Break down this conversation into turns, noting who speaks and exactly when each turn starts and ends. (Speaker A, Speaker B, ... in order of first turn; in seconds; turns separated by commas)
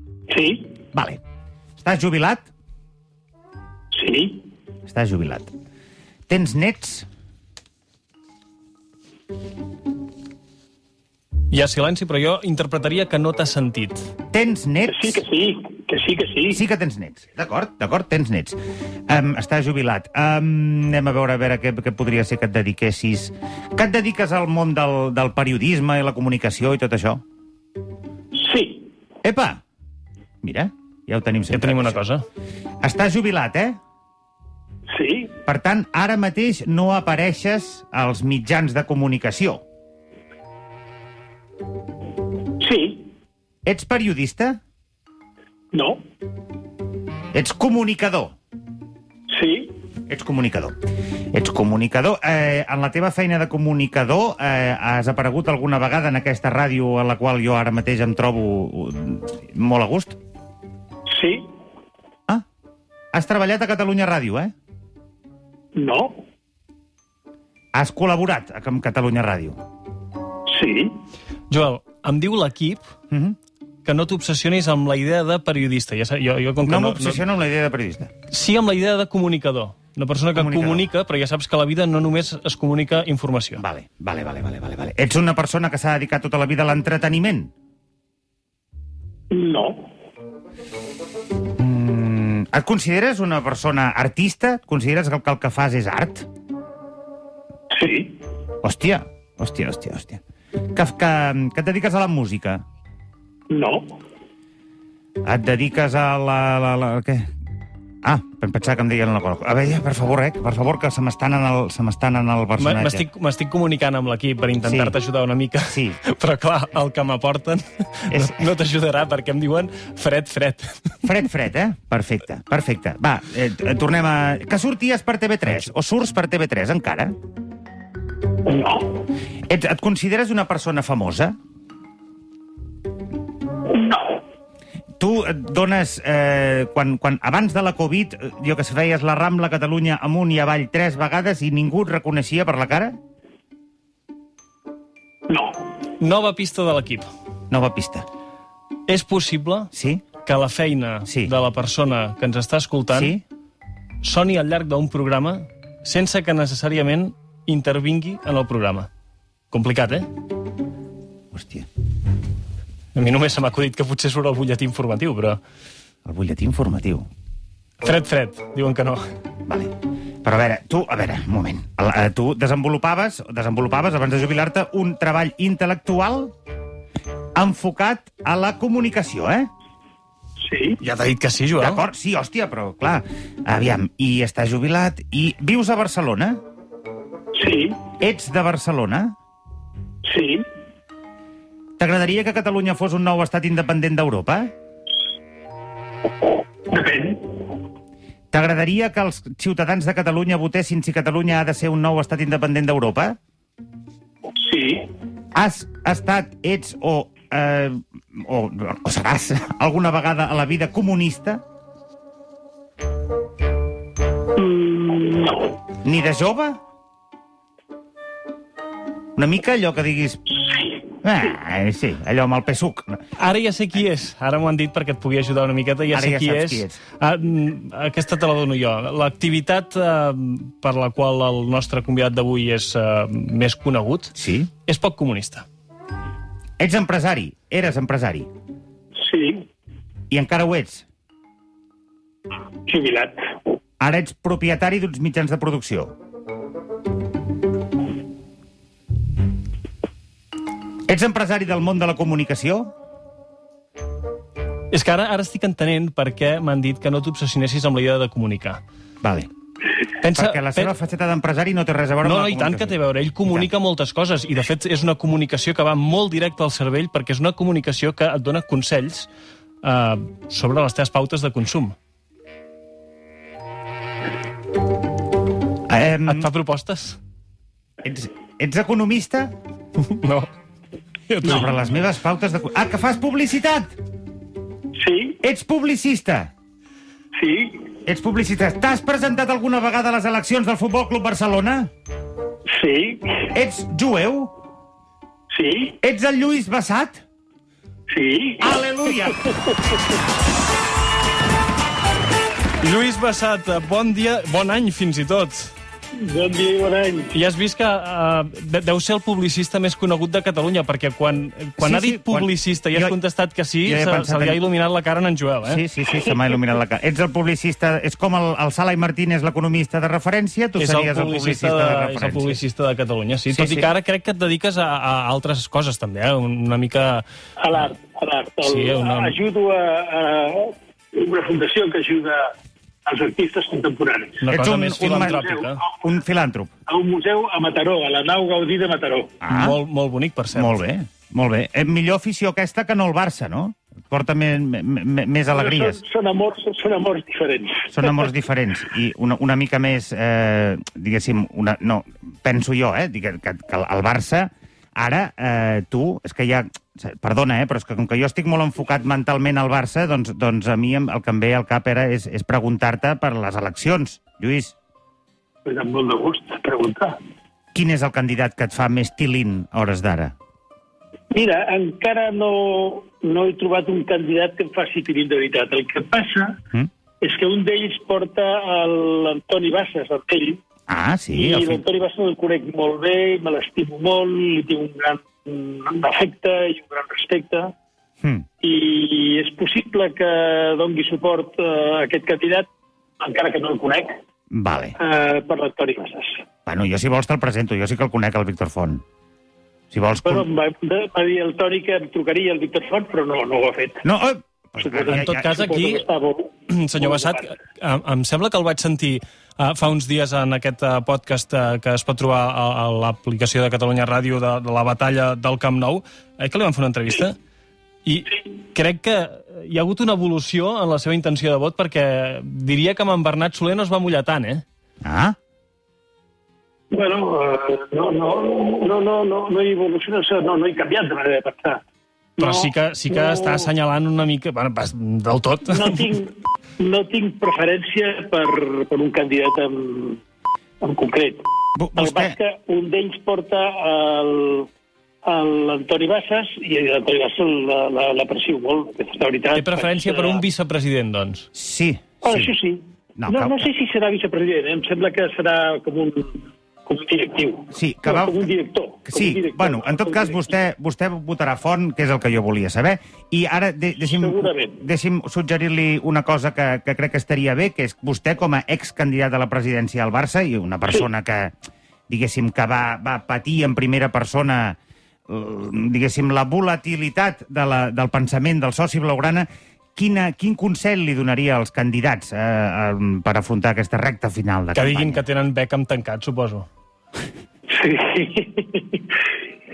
Speaker A: 0.3-0.8, Speaker B: 0.9-1.2, Speaker B: 1.8-2.5, Speaker A: 3.9-4.5, Speaker B: 4.9-5.5, Speaker B: 6.3-7.1, Speaker C: 11.5-14.1, Speaker B: 14.3-15.2, Speaker A: 14.9-16.6, Speaker B: 16.5-27.2, Speaker A: 28.3-28.9, Speaker B: 29.2-29.6, Speaker B: 30.4-32.0, Speaker C: 31.5-32.2, Speaker B: 32.8-33.8, Speaker A: 34.9-35.4, Speaker B: 35.5-39.6, Speaker A: 42.6-43.1, Speaker B: 43.7-44.6, Speaker A: 45.7-46.0, Speaker B: 47.3-48.4, Speaker A: 49.3-49.8, Speaker B: 50.1-50.8, Speaker B: 51.3-60.2, Speaker A: 61.1-61.5, Speaker B: 63.1-64.5, Speaker A: 65.7-66.2, Speaker B: 67.7-69.6, Speaker A: 70.5-71.0, Speaker C: 71.5-72.9, Speaker B: 73.1-73.4, Speaker C: 73.8-77.2, Speaker B: 76.6-78.1, Speaker C: 78.3-83.6, Speaker B: 80.3-80.9, Speaker B: 83.6-87.5, Speaker A: 89.3-89.9, Speaker B: 91.6-96.3, Speaker A: 97.7-98.2, Speaker B: 98.6-100.2, Speaker B: 100.7-102.6, Speaker A: 103.5-104.0, Speaker B: 105.2-107.3, Speaker B: 108.0-113.0, Speaker C: 112.6-121.0, Speaker B: 114.6-115.0, Speaker B: 115.7-116.0, Speaker B: 118.1-118.5, Speaker B: 121.0-127.2, Speaker A: 128.5-129.0, Speaker B: 129.5-131.4, Speaker A: 133.7-134.2, Speaker B: 135.0-143.0, Speaker A: 145.3-145.6, Speaker C: 146.0-147.1, Speaker B: 147.5-148.1, Speaker C: 148.9-149.7, Speaker B: 149.7-150.0, Speaker C: 150.2-153.2, Speaker B: 152.9-153.2, Speaker C: 154.0-158.9, Speaker C: 159.5-160.1, Speaker B: 161.3-161.7, Speaker C: 162.9-165.4, Speaker B: 166.1-167.1, Speaker C: 167.8-169.1, Speaker B: 169.5-169.7, Speaker B: 170.2-176.3, Speaker B: 177.3-179.5, Speaker A: 180.4-180.8, Speaker C: 180.8-181.8, Speaker B: 181.6-186.4, Speaker A: 187.3-187.9, Speaker B: 188.0-189.2, Speaker A: 190.0-190.5, Speaker B: 191.8-194.5, Speaker A: 196.7-197.3, Speaker B: 198.3-203.2, Speaker A: 204.4-204.9, Speaker B: 205.3-211.4, Speaker A: 214.3-215.6, Speaker B: 215.8-216.6, Speaker B: 219.2-220.2, Speaker A: 220.4-220.8, Speaker B: 221.0-223.0, Speaker C: 223.2-235.5, Speaker B: 225.9-226.8, Speaker B: 234.2-234.5, Speaker B: 236.6-238.3, Speaker A: 238.9-239.5, Speaker B: 240.1-240.9, Speaker A: 242.7-243.3, Speaker B: 243.8-245.9, Speaker B: 250.9-252.7, Speaker C: 254.7-258.6, Speaker B: 259.0-259.3, Speaker C: 260.0-260.7, Speaker B: 260.1-263.5, Speaker C: 262.0-269.1, Speaker C: 269.6-271.8, Speaker B: 275.7-276.3, Speaker C: 276.1-277.0, Speaker B: 277.8-279.3, Speaker C: 279.8-280.3, Speaker C: 281.1-281.5, Speaker B: 281.2-283.7, Speaker A: 284.8-285.2, Speaker B: 285.2-286.3, Speaker A: 287.1-287.8, Speaker B: 287.9-291.7, Speaker A: 292.5-293.3, Speaker B: 293.3-294.3, Speaker A: 295.3-295.8, Speaker B: 295.8-297.0, Speaker A: 297.9-299.8, Speaker B: 298.4-299.2, Speaker C: 302.6-305.5, Speaker A: 305.9-307.2, Speaker C: 307.1-315.6, Speaker B: 311.6-313.0, Speaker B: 313.6-314.4, Speaker B: 315.4-322.4, Speaker C: 320.6-327.7, Speaker B: 323.3-323.7, Speaker A: 327.4-332.3, Speaker C: 328.4-329.2, Speaker A: 332.9-334.2, Speaker C: 334.2-335.6, Speaker B: 334.3-335.2, Speaker A: 334.8-335.8, Speaker B: 335.8-336.5, Speaker A: 336.7-339.2, Speaker B: 339.2-339.6, Speaker C: 339.3-340.6, Speaker B: 340.3-345.8, Speaker A: 345.3-348.0, Speaker B: 347.7-364.6, Speaker A: 365.4-367.0, Speaker B: 367.5-370.1, Speaker A: 371.1-376.4, Speaker A: 377.0-380.4, Speaker B: 380.7-381.6, Speaker A: 381.1-387.5, Speaker A: 388.4-392.5, Speaker A: 393.0-394.0, Speaker B: 394.3-394.8, Speaker A: 394.8-396.2, Speaker B: 396.5-398.8, Speaker B: 399.7-400.3, Speaker A: 400.1-403.8, Speaker B: 403.8-405.3, Speaker A: 404.6-407.3, Speaker C: 404.9-405.9, Speaker C: 406.5-417.2, Speaker C: 417.9-424.4, Speaker B: 424.8-425.2, Speaker A: 426.7-431.6, Speaker A: 432.2-433.5, Speaker C: 432.2-435.9, Speaker A: 435.5-440.0, Speaker A: 440.6-444.5, Speaker B: 441.6-442.2, Speaker A: 445.0-450.2, Speaker C: 449.3-451.3, Speaker B: 451.4-452.3, Speaker A: 452.0-460.2, Speaker B: 453.0-453.5, Speaker B: 457.5-458.2, Speaker B: 458.9-471.4, Speaker A: 463.9-464.6, Speaker B: 471.9-485.0, Speaker C: 484.5-486.5, Speaker A: 487.5-489.1